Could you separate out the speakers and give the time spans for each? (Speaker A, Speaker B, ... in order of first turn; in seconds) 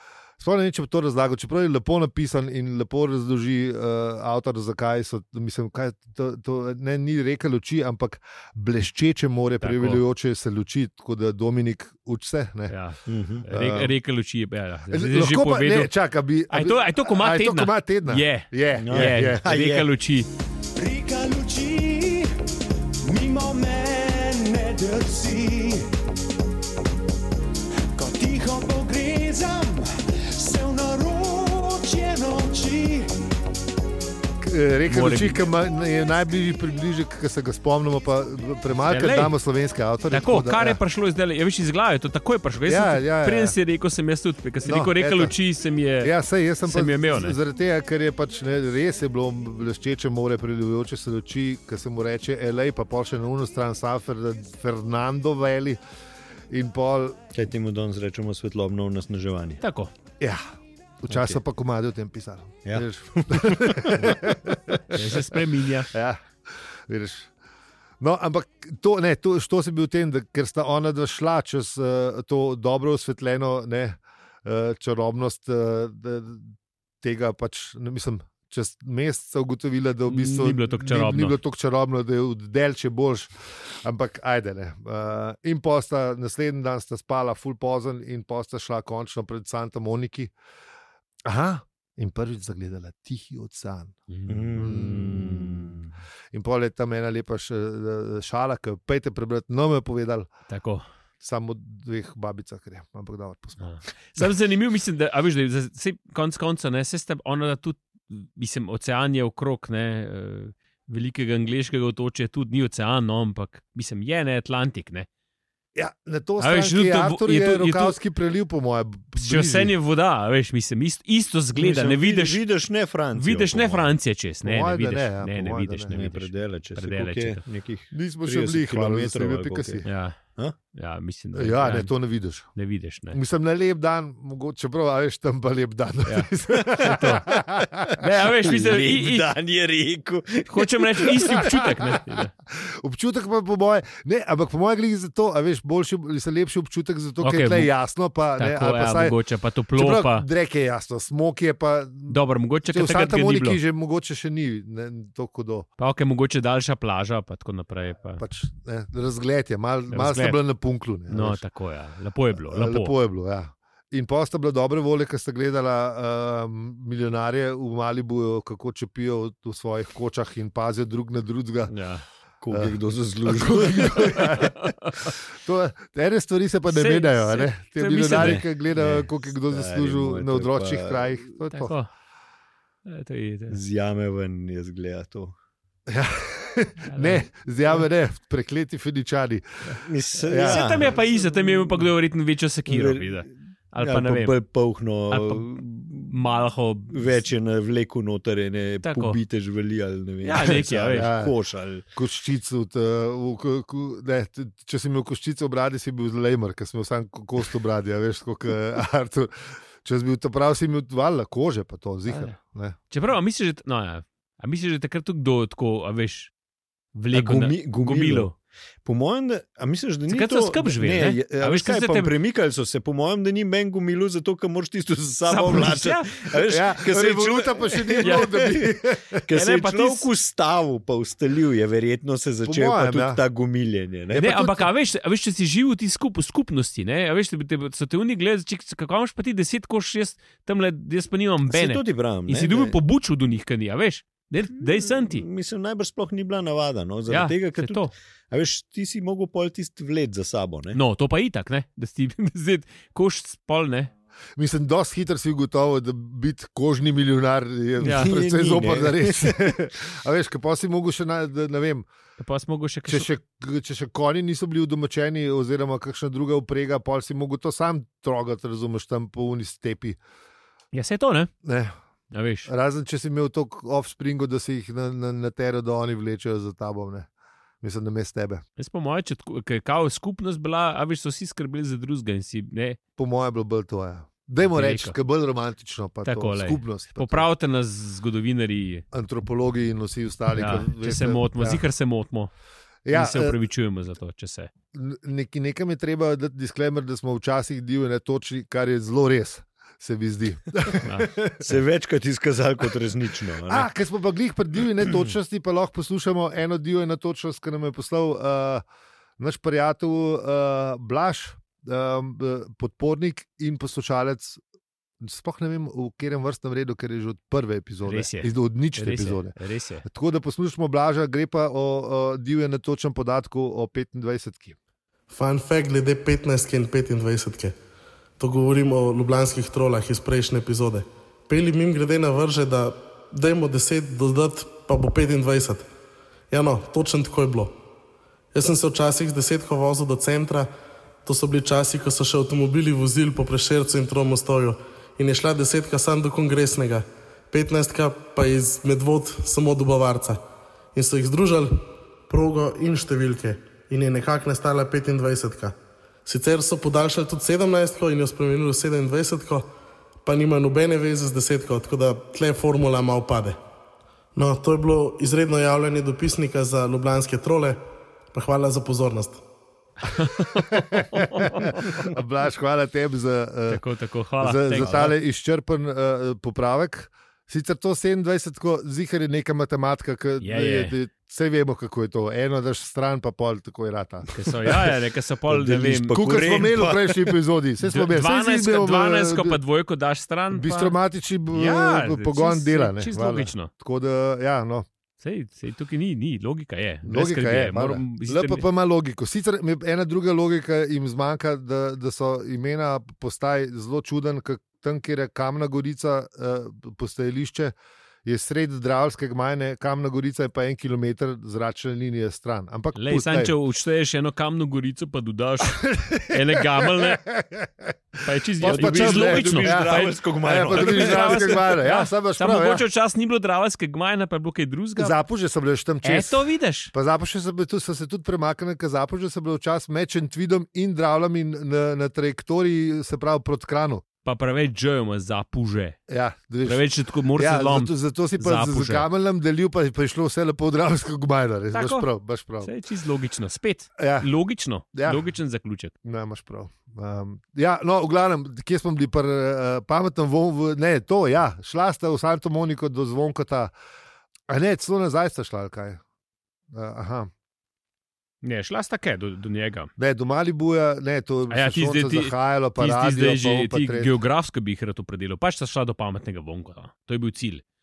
Speaker A: 0.4-12.8, 13.5-13.9, 14.9-19.4, 34.4-40.8, 42.7-43.5, 44.6-45.3, 46.0-55.8, 56.5-57.2, 60.2-60.5, 61.0-65.0, 65.9-66.2, 66.9-67.3, 68.0-83.3, 83.8-90.3, 91.2-94.0, 94.5-95.8, 96.3-100.3, 101.2-103.7, 115.8-119.7, 124.4-125.9, 127.9-129.9, 131.3-132.6, 133.1-138.0, 141.2-149.2, 149.8-155.7, 158.2-161.4, 162.5-171.7, 172.5-181.7, 185.9-190.9, 200.9-201.3, 201.9-212.8, 226.5-229.2, 232.4-233.2, 234.1-234.7, 254.4-261.9, 262.9-270.0, 271.4-271.7, 272.5-277.1, 277.6-278.4, 283.0-287.2, 288.9-291.6, 292.9-293.4, 294.7-301.5, 303.5-308.6, 309.2-314.4, 315.0-324.6, 370.3-373.6, 374.2-384.1, 385.9-389.4, 390.3-394.7, 396.9-407.5, 408.1-413.3, 415.5-422.7, 424.8-433.8, 435.9-442.5, 443.8-444.1, 444.7-445.1, 445.8-453.5, 454.3-455.8, 456.5-457.1, 459.8-463.9
Speaker B: 9.6-10.0, 12.7-15.9, 16.5-20.3, 34.9-35.4, 38.9-39.4, 40.1-46.1, 46.7-47.4, 59.6-59.9, 64.9-65.9, 80.1-81.3, 94.1-94.5, 100.5-100.8, 103.6-115.1, 116.4-118.0, 119.2-122.4, 123.1-127.4, 129.8-130.2, 130.7-131.9, 132.6-133.2, 136.1-137.2, 138.0-139.3, 140.5-142.3, 147.2-147.7, 148.4-150.3, 152.1-153.6, 155.8-158.2, 159.9-160.4, 161.1-162.9, 171.7-172.0, 174.0-175.1, 176.7-178.4, 181.5-181.9, 182.8-183.6, 186.8-187.3, 190.4-194.4, 195.1-195.5, 196.1-197.2, 198.8-199.2, 200.2-201.1, 212.1-212.3, 212.9-216.3, 216.9-218.3, 220.1-222.1, 225.3-226.1, 228.0-228.3, 229.3-230.1, 234.2-245.2, 247.1-247.9, 250.7-253.9, 257.8-258.1, 262.2-263.1, 270.7-271.3, 272.1-272.5, 278.6-282.8, 284.5-285.0, 286.1-288.9, 290.4-292.3, 292.9-294.5, 300.8-301.1, 317.9-319.9, 369.8-371.9, 373.5-374.9, 380.2-380.8, 384.1-386.0, 387.6-390.8, 391.3-393.5, 395.0-398.5, 412.8-417.0, 418.0-424.9, 425.8-426.7, 434.0-435.8, 436.4-438.9, 441.5-441.9, 442.4-445.7, 458.2-459.7, 461.3-467.4
Speaker C: 13.1-13.5, 18.7-19.9, 57.3-59.6, 61.1-61.4, 62.7-65.0, 94.3-95.9, 121.5-123.9, 125.9-130.6, 136.5-141.5, 172.4-174.5, 178.1-181.1, 183.5-185.3, 189.8-191.9, 192.7-196.2, 196.9-201.8, 217.1-234.3, 241.5-242.8, 244.6-250.8, 257.8-259.4, 301.4-303.7, 304.8-305.1, 374.6-374.9, 385.3-387.2, 418.4-421.4
Speaker D: 20.8-22.3, 23.0-25.9, 27.9-33.1
Speaker E: 325.1-327.5, 328.2-335.7, 336.3-337.6, 338.3-340.5, 341.1-350.2, 350.7-355.5, 356.1-359.5, 360.0-363.4, 364.1-367.6, 368.1-369.2